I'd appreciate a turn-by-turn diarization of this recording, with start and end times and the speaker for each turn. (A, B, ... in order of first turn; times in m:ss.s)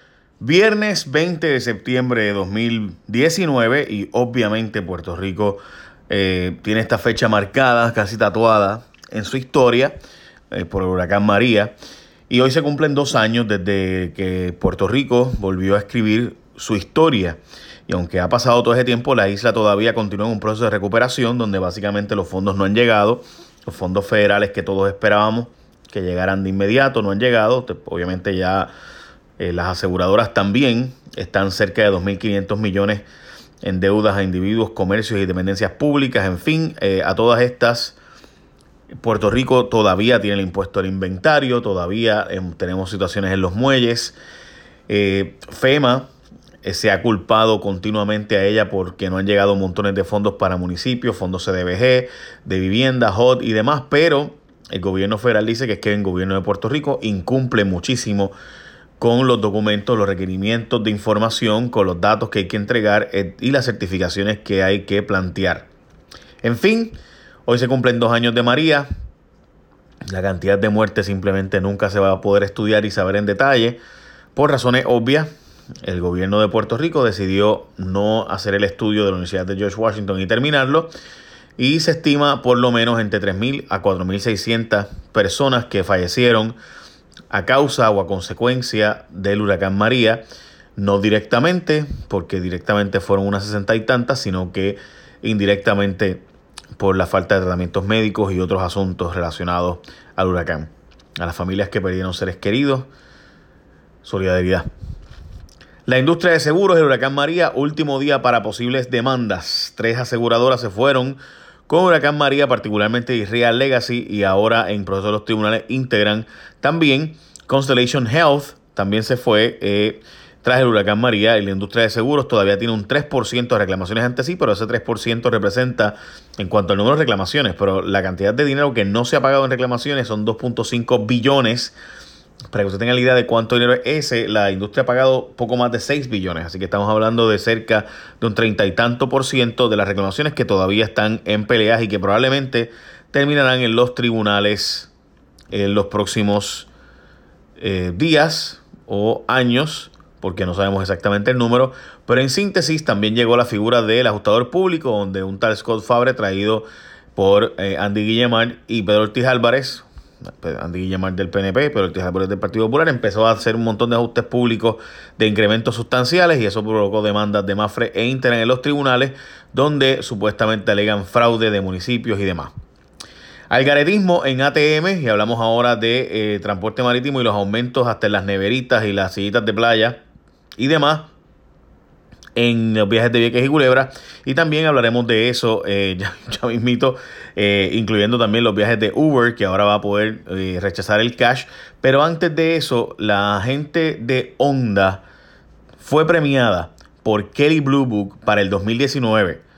0:00.4-0:09.9 A
0:10.5-0:11.7 A
0:12.3-0:28.7 A
0:29.4-0:33.0 A
0:33.6-0:38.0 A
0:39.0-0:44.2 A
0:44.9-0:46.1 A
0:46.6-0:58.3 A
0:59.0-1:05.7 A
1:06.4-1:08.9 A
1:10.1-1:13.8 A
1:14.3-1:15.3 A
1:15.8-1:20.9 A
1:21.6-1:26.6 A
1:27.3-1:30.2 A
1:30.8-1:36.2 A
1:36.8-1:42.9 A
1:44.0-1:44.7 A
1:45.8-2:11.7 A
2:12.5-2:24.9 A
2:25.5-2:26.7 A
2:27.6-2:39.8 A
2:40.4-2:52.5 A
2:53.5-3:00.0 A
3:00.6-3:01.1 A
3:02.4-3:15.0 A
3:15.8-3:19.4 A